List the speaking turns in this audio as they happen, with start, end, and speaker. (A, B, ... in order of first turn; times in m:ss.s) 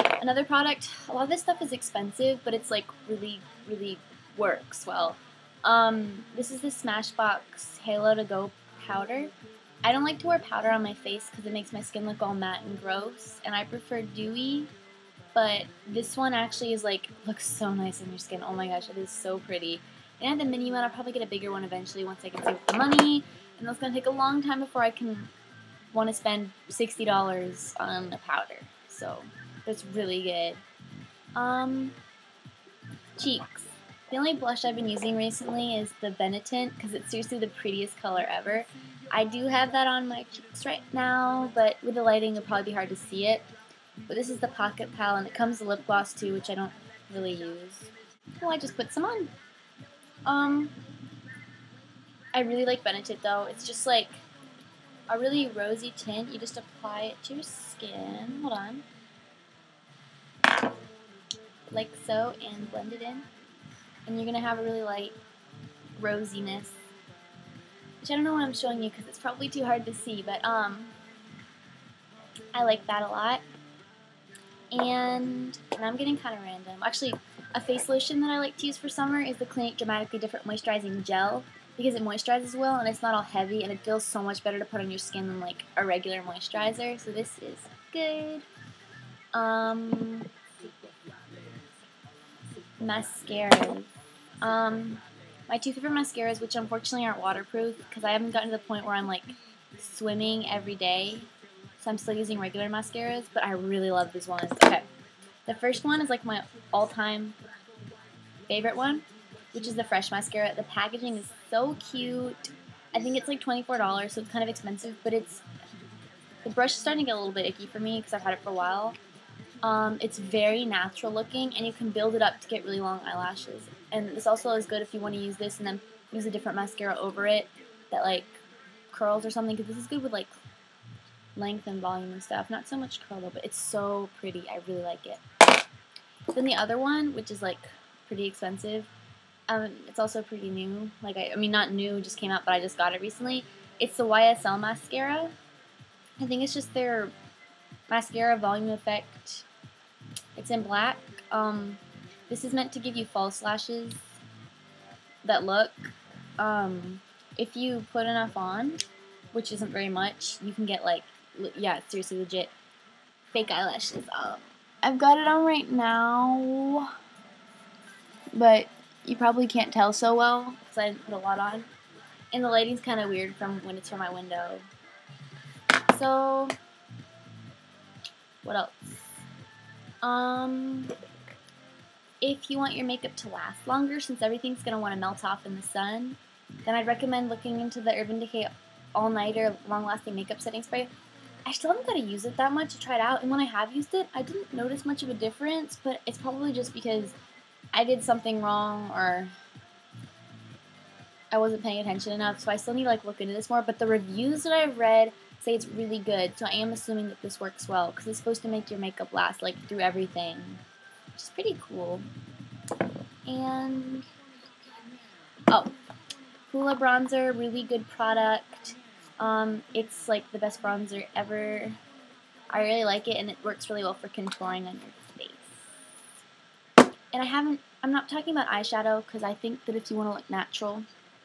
0:00.2-0:09.3 A
0:09.8-0:14.7 A
0:15.3-0:25.3 A
0:25.9-0:30.6 A
0:31.3-0:32.0 A
0:33.2-0:43.5 A
0:44.1-0:49.3 A
0:50.2-0:50.8 A
0:52.3-0:54.2 A
0:55.1-0:58.8 A
1:01.7-1:03.3 A
1:04.0-1:05.1 A
1:06.0-1:06.8 A
1:08.0-1:11.0 A
1:12.5-1:13.4 A
1:14.7-1:28.4 A
1:29.3-1:30.3 A
1:32.8-1:44.8 A
1:45.4-1:47.4 A
1:48.5-1:55.4 A
1:56.4-1:59.0 A
1:59.6-2:08.4 A
2:08.9-2:10.4 A
2:11.4-2:15.2 A
2:16.3-2:18.9 A
2:19.5-2:25.3 A
2:26.2-2:27.1 A
2:27.9-2:29.4 A
2:30.4-2:34.2 A
2:35.2-2:42.5 A
2:43.3-2:46.9 A
2:48.3-2:51.7 A
2:52.3-2:54.6 A
2:55.9-2:56.5 A
2:58.4-2:59.2 A
3:00.0-3:00.9 A
3:02.2-3:10.9 A
3:11.4-3:17.1 A
3:17.7-3:19.3 A
3:21.3-3:30.6 A
3:31.2-3:32.0 A
3:33.2-3:34.1 A
3:35.5-3:35.7 A
3:36.5-3:41.8 A
3:42.5-3:45.8 A
3:47.1-3:50.9 A